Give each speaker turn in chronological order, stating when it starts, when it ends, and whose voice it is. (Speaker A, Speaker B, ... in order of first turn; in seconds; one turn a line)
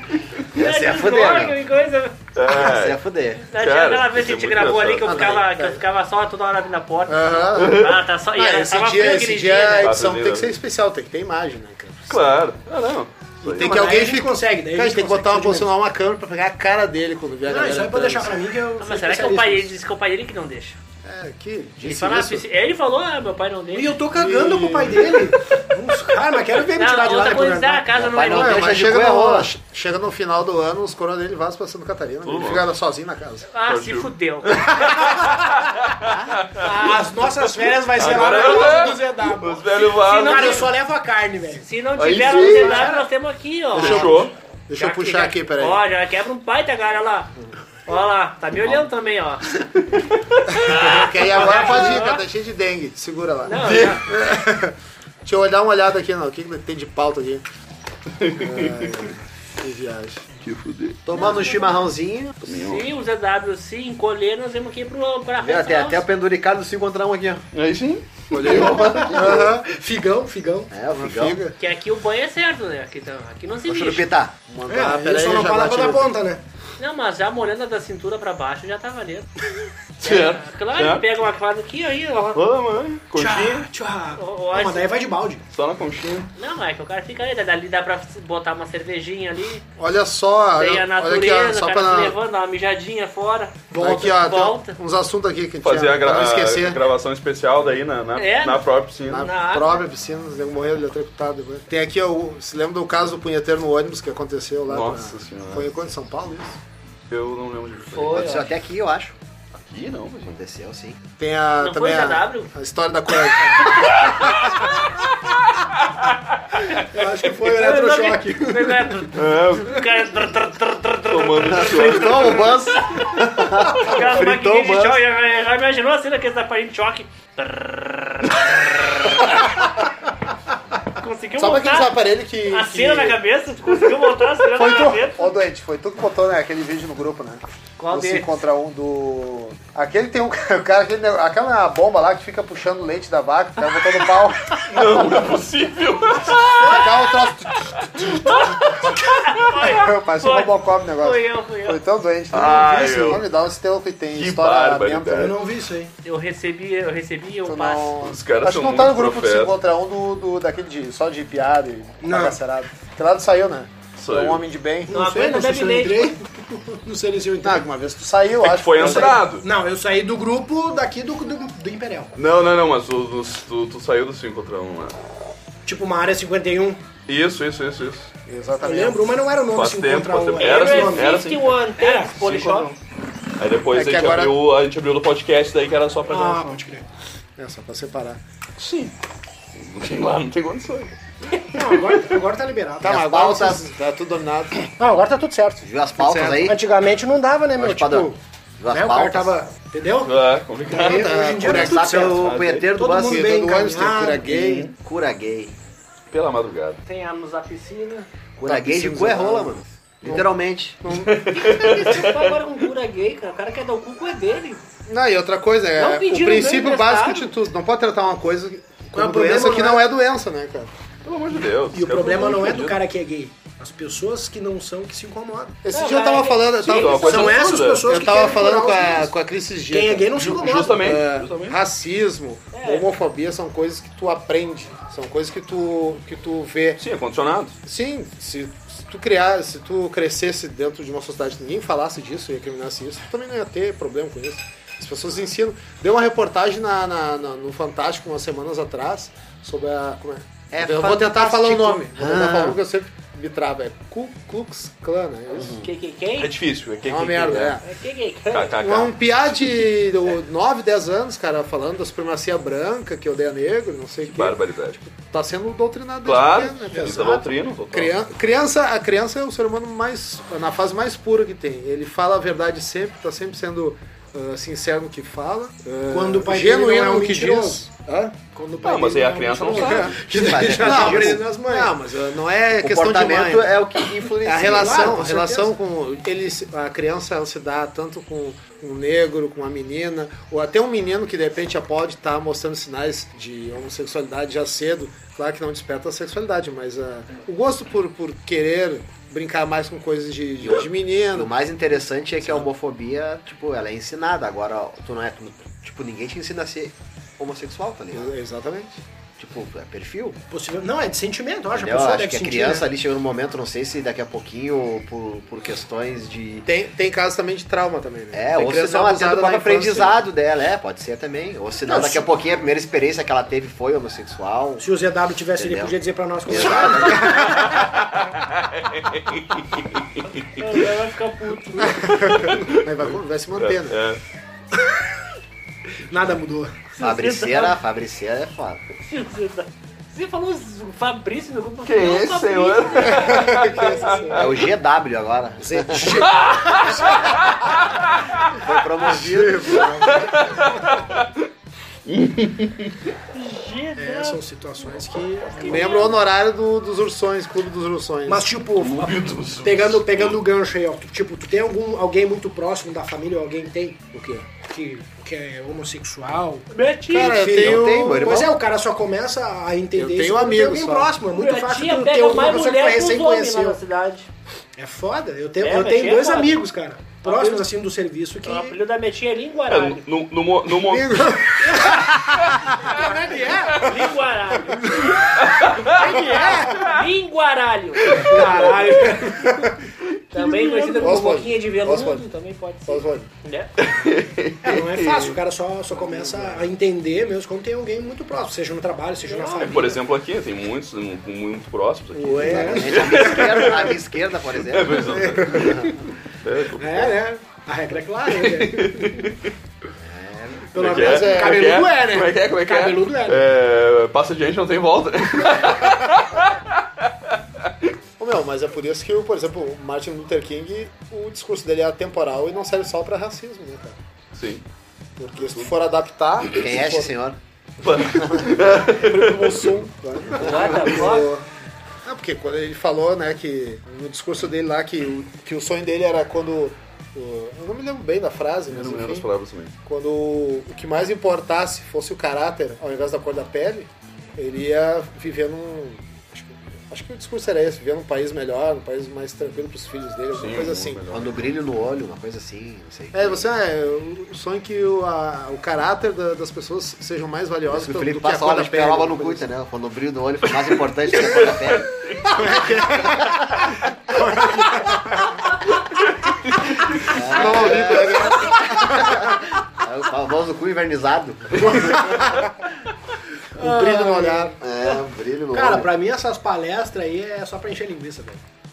Speaker A: 0.5-1.6
Speaker B: 0.5-2.2
Speaker C: 2.3-3.0
Speaker A: 2.5-3.4
Speaker B: 3.5-9.9
Speaker C: 3.5-5.2
Speaker D: 5.0-5.8
Speaker D: 7.1-12.4
Speaker C: 7.6-7.9
Speaker C: 9.8-10.6
Speaker C: 12.1-13.8
Speaker D: 13.4-18.4
Speaker E: 13.5-15.7
Speaker E: 17.5-19.8
Speaker B: 18.8-20.8
Speaker D: 21.0-22.4
Speaker B: 21.8-23.9
Speaker E: 23.7-27.9
Speaker D: 24.1-25.3
Speaker B: 26.8-28.8
Speaker A: 27.9-29.5
Speaker D: 28.1-33.5
Speaker C: 32.2-32.7
Speaker B: 33.5-34.9
Speaker C: 33.6-40.7
Speaker A: 36.1-36.4
Speaker E: 36.6-41.7
Speaker B: 36.6-36.9
Speaker B: 39.8-40.6
Speaker B: 41.6-44.2
Speaker C: 42.0-42.9
Speaker E: 42.2-43.1
Speaker C: 43.7-44.3
Speaker D: 43.7-45.9
Speaker B: 44.8-47.3
Speaker B: 47.9-49.5
Speaker C: 49.9-50.2
Speaker D: 50.6-57.4
Speaker B: 50.6-52.2
Speaker B: 53.4-54.0
Speaker C: 53.6-54.0
Speaker C: 58.2-59.1
Speaker D: 58.4-60.2
Speaker C: 60.4-61.0
Speaker A: 61.0-62.4
Speaker B: 61.1-61.9
Speaker C: 62.4-62.9
Speaker B: 62.5-66.0
Speaker A: 65.4-67.4
Speaker C: 67.5-69.4
Speaker D: 68.3-69.7
Speaker E: 68.4-70.7
Speaker A: 70.7-71.4
Speaker D: 70.9-71.5
Speaker B: 71.6-74.1
Speaker A: 73.7-75.0
Speaker E: 74.7-76.4
Speaker D: 74.7-76.1
Speaker B: 76.8-79.3
Speaker C: 80.0-81.0
Speaker B: 80.0-82.4
Speaker C: 82.3-83.7
Speaker E: 83.1-85.4
Speaker B: 84.1-84.9
Speaker C: 85.5-86.3
Speaker B: 86.3-89.6
Speaker D: 89.8-92.2
Speaker B: 90.6-94.8
Speaker D: 93.7-96.8
Speaker E: 93.7-94.1
Speaker C: 95.6-99.3
Speaker B: 98.2-99.8
Speaker D: 99.1-106.6
Speaker C: 104.7-105.7
Speaker C: 107.1-108.3
Speaker B: 107.9-108.5
Speaker A: 108.1-109.2
Speaker C: 109.5-110.4
Speaker A: 110.3-111.0
Speaker D: 111.2-114.7
Speaker B: 111.6-112.5
Speaker E: 116.8-119.0
Speaker B: 117.4-122.1
Speaker C: 119.1-119.9
Speaker C: 121.1-122.8
Speaker A: 121.5-125.0
Speaker B: 123.7-129.7
Speaker B: 130.9-135.3
Speaker D: 131.4-133.2
Speaker D: 134.4-145.3
Speaker B: 137.8-138.4
Speaker C: 144.7-147.0
Speaker D: 146.6-148.9
Speaker B: 148.2-151.8
Speaker D: 149.6-155.3
Speaker C: 152.3-153.2
Speaker E: 152.4-153.2
Speaker C: 154.1-155.4
Speaker E: 155.1-155.9
Speaker B: 156.0-157.9
Speaker D: 157.4-164.9
Speaker C: 158.0-159.5
Speaker E: 162.0-162.4
Speaker C: 164.0-164.4
Speaker E: 164.9-167.7
Speaker B: 164.9-166.2
Speaker D: 167.4-169.1
Speaker C: 168.4-169.4
Speaker E: 168.8-172.1
Speaker C: 172.2-174.9
Speaker E: 175.7-176.8
Speaker C: 177.1-178.1
Speaker D: 178.2-179.1
Speaker E: 178.6-181.2
Speaker C: 179.5-181.6
Speaker B: 180.4-182.7
Speaker E: 181.8-182.5
Speaker C: 182.2-182.8
Speaker C: 183.4-186.6
Speaker D: 183.7-184.4
Speaker E: 186.1-186.8
Speaker D: 187.4-188.2
Speaker C: 188.6-188.9
Speaker C: 189.5-191.9
Speaker E: 191.5-193.0
Speaker D: 192.8-194.7
Speaker A: 192.8-193.7
Speaker E: 194.7-195.7
Speaker A: 195.6-196.6
Speaker D: 196.0-196.4
Speaker E: 196.3-198.2
Speaker A: 197.5-199.3
Speaker E: 198.7-204.5
Speaker C: 200.0-201.3
Speaker D: 200.7-201.8
Speaker A: 201.4-203.3
Speaker C: 202.1-202.7
Speaker D: 202.9-204.5
Speaker A: 204.2-205.5
Speaker C: 204.3-204.7
Speaker C: 206.1-206.8
Speaker B: 206.8-208.1
Speaker A: 208.4-210.8
Speaker D: 208.4-211.4
Speaker C: 211.0-212.4
Speaker B: 211.3-214.6
Speaker D: 214.9-220.7
Speaker B: 215.8-217.3
Speaker E: 218.9-219.8
Speaker C: 221.0-222.8
Speaker E: 221.7-225.6
Speaker D: 225.6-227.3
Speaker B: 225.7-227.2
Speaker C: 226.6-227.9
Speaker E: 227.0-229.1
Speaker D: 227.8-236.8
Speaker E: 229.7-230.9
Speaker C: 230.2-231.6
Speaker B: 232.5-232.9
Speaker C: 236.8-237.6
Speaker D: 237.6-255.6
Speaker A: 250.5-252.6
Speaker A: 255.3-255.7
Speaker B: 255.6-256.3
Speaker C: 256.2-257.6
Speaker D: 256.8-257.6
Speaker B: 257.6-258.6
Speaker C: 258.3-259.5
Speaker D: 258.6-267.0
Speaker C: 264.0-264.8
Speaker C: 266.0-268.1
Speaker E: 266.7-267.3
Speaker D: 267.7-278.1
Speaker E: 275.9-281.7
Speaker C: 278.6-280.0
Speaker D: 279.5-301.3
Speaker A: 280.0-281.2
Speaker A: 282.5-285.0
Speaker E: 284.4-285.5
Speaker A: 300.4-308.1
Speaker D: 307.9-308.8
Speaker A: 309.2-310.2
Speaker E: 310.3-312.7
Speaker A: 311.5-316.5
Speaker D: 316.4-320.0
Speaker A: 318.1-324.6
Speaker D: 321.7-322.1
Speaker E: 324.6-327.4
Speaker A: 325.4-325.7
Speaker A: 326.2-327.4
Speaker D: 326.9-327.4
Speaker C: 327.8-330.6
Speaker B: 330.3-331.9
Speaker D: 331.6-333.8
Speaker C: 331.9-332.8
Speaker C: 333.4-334.0
Speaker E: 335.9-336.6
Speaker B: 336.7-337.6
Speaker A: 336.8-338.6
Speaker B: 338.8-344.1
Speaker C: 341.6-344.3
Speaker D: 342.9-344.3
Speaker A: 344.1-346.1
Speaker E: 345.5-346.8
Speaker D: 345.5-345.9
Speaker C: 346.1-347.4
Speaker A: 348.3-349.7
Speaker D: 348.8-350.2
Speaker C: 349.9-351.1
Speaker C: 351.9-352.8
Speaker B: 353.1-354.2
Speaker E: 353.8-355.8
Speaker B: 355.3-355.9
Speaker D: 355.4-358.3
Speaker E: 358.1-366.5
Speaker C: 358.6-360.2
Speaker D: 363.9-364.3
Speaker B: 366.5-367.3
Speaker D: 366.9-368.2
Speaker E: 367.1-373.6
Speaker A: 367.3-368.3
Speaker D: 369.8-370.9
Speaker B: 371.1-374.1
Speaker E: 374.6-378.6
Speaker B: 375.4-376.4
Speaker B: 377.0-377.4
Speaker B: 378.2-379.8
Speaker C: 379.5-381.2
Speaker D: 380.5-382.8
Speaker E: 381.4-381.8
Speaker E: 382.6-383.7
Speaker B: 383.6-384.9
Speaker D: 384.6-385.2
Speaker C: 385.1-386.8
Speaker B: 385.6-388.1
Speaker E: 385.7-386.6
Speaker C: 387.8-391.0
Speaker E: 387.9-389.3
Speaker D: 389.1-389.5
Speaker B: 390.1-393.5
Speaker D: 390.8-392.0
Speaker D: 392.7-393.1
Speaker C: 393.6-395.2
Speaker E: 394.4-399.8
Speaker D: 395.8-396.4
Speaker B: 399.0-399.7
Speaker C: 399.4-403.8
Speaker A: 401.9-405.7
Speaker D: 402.0-403.2
Speaker E: 402.2-403.0
Speaker C: 404.4-405.6
Speaker C: 406.2-406.9
Speaker E: 406.6-409.1
Speaker C: 408.1-409.3
Speaker A: 409.8-410.5
Speaker E: 410.5-413.2
Speaker C: 410.5-416.6
Speaker D: 410.6-411.4
Speaker D: 418.0-423.8
Speaker C: 424.1-424.4
Speaker D: 425.0-426.9
Speaker A: 426.3-427.2
Speaker C: 427.6-429.6
Speaker D: 428.2-431.2
Speaker B: 430.2-431.1
Speaker A: 430.2-430.6
Speaker D: 431.8-439.1
Speaker C: 438.5-439.5
Speaker D: 439.6-450.8
Speaker C: 450.1-451.4
Speaker A: 450.9-453.3
Speaker D: 452.9-459.2
Speaker A: 457.5-463.5
Speaker C: 461.0-462.1
Speaker D: 462.1-465.2
Speaker A: 466.8-471.9
Speaker D: 467.1-469.2
Speaker D: 471.4-472.4
Speaker E: 473.4-474.3
Speaker D: 473.4-474.4
Speaker A: 474.4-475.7
Speaker E: 475.3-478.2